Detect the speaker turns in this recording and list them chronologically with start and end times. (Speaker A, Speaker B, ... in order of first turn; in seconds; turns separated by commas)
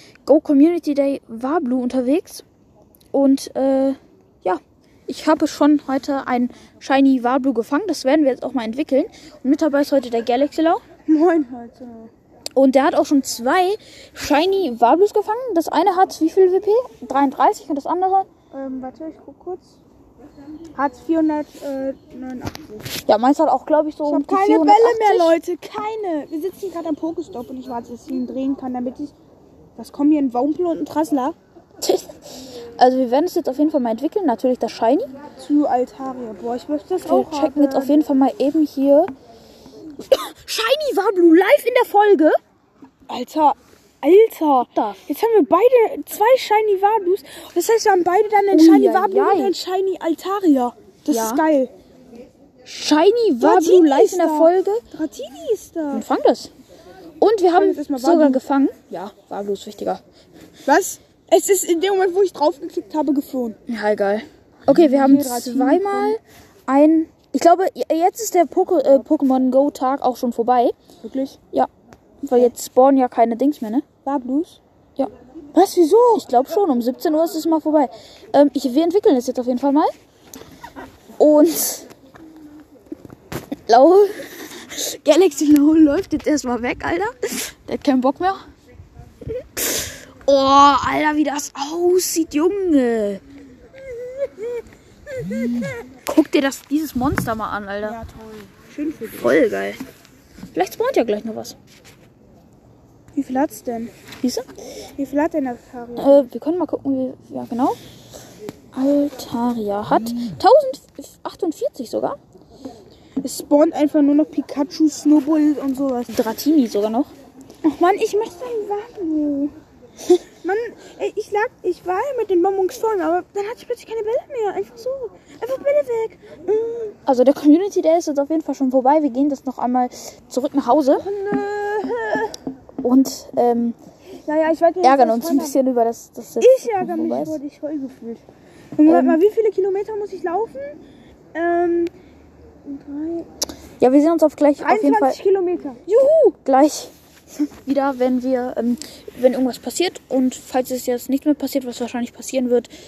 Speaker A: 0.2-2.4, Speaker A: 3.1-10.8, Speaker B: 11.1-12.1, Speaker A: 12.6-18.3, Speaker B: 18.5-19.8, Speaker B: 20.7-22.9, Speaker A: 23.0-25.3, Speaker B: 24.1-29.1, Speaker B: 29.8-31.4, Speaker A: 31.8-32.2, Speaker A: 32.8-35.1, Speaker B: 35.4-38.0, Speaker A: 37.0-39.1, Speaker A: 40.1-42.4, Speaker B: 43.1-51.7, Speaker A: 44.6-45.1, Speaker A: 48.5-49.5, Speaker A: 51.1-51.4, Speaker A: 52.6-54.8, Speaker B: 53.4-56.0, Speaker A: 55.9-56.5, Speaker A: 57.2-60.0, Speaker B: 57.5-58.4, Speaker B: 60.6-63.6, Speaker A: 63.7-70.8, Speaker B: 64.7-66.2, Speaker B: 71.0-71.4, Speaker A: 72.2-73.8, Speaker B: 74.0-74.6, Speaker A: 75.0-79.9, Speaker A: 81.2-81.9, Speaker A: 83.7-88.4, Speaker A: 89.6-93.2, Speaker B: 95.4-95.7, Speaker A: 96.0-98.0, Speaker B: 97.8-99.4, Speaker A: 99.2-99.8, Speaker A: 100.5-101.6, Speaker B: 103.2-103.9, Speaker A: 104.2-104.5, Speaker B: 105.0-106.2, Speaker A: 106.0-107.8, Speaker A: 108.7-112.2, Speaker B: 113.2-116.1, Speaker A: 116.1-117.1, Speaker B: 117.6-119.5, Speaker B: 120.4-127.0, Speaker A: 127.1-131.1, Speaker B: 130.9-132.4, Speaker A: 132.8-133.8, Speaker B: 134.2-135.6, Speaker A: 134.8-137.4, Speaker B: 136.4-138.2, Speaker B: 138.8-140.8, Speaker A: 138.9-139.2, Speaker B: 141.3-141.9, Speaker B: 142.6-143.3, Speaker A: 143.8-145.2, Speaker B: 144.6-146.4, Speaker A: 146.4-146.9, Speaker A: 147.5-152.7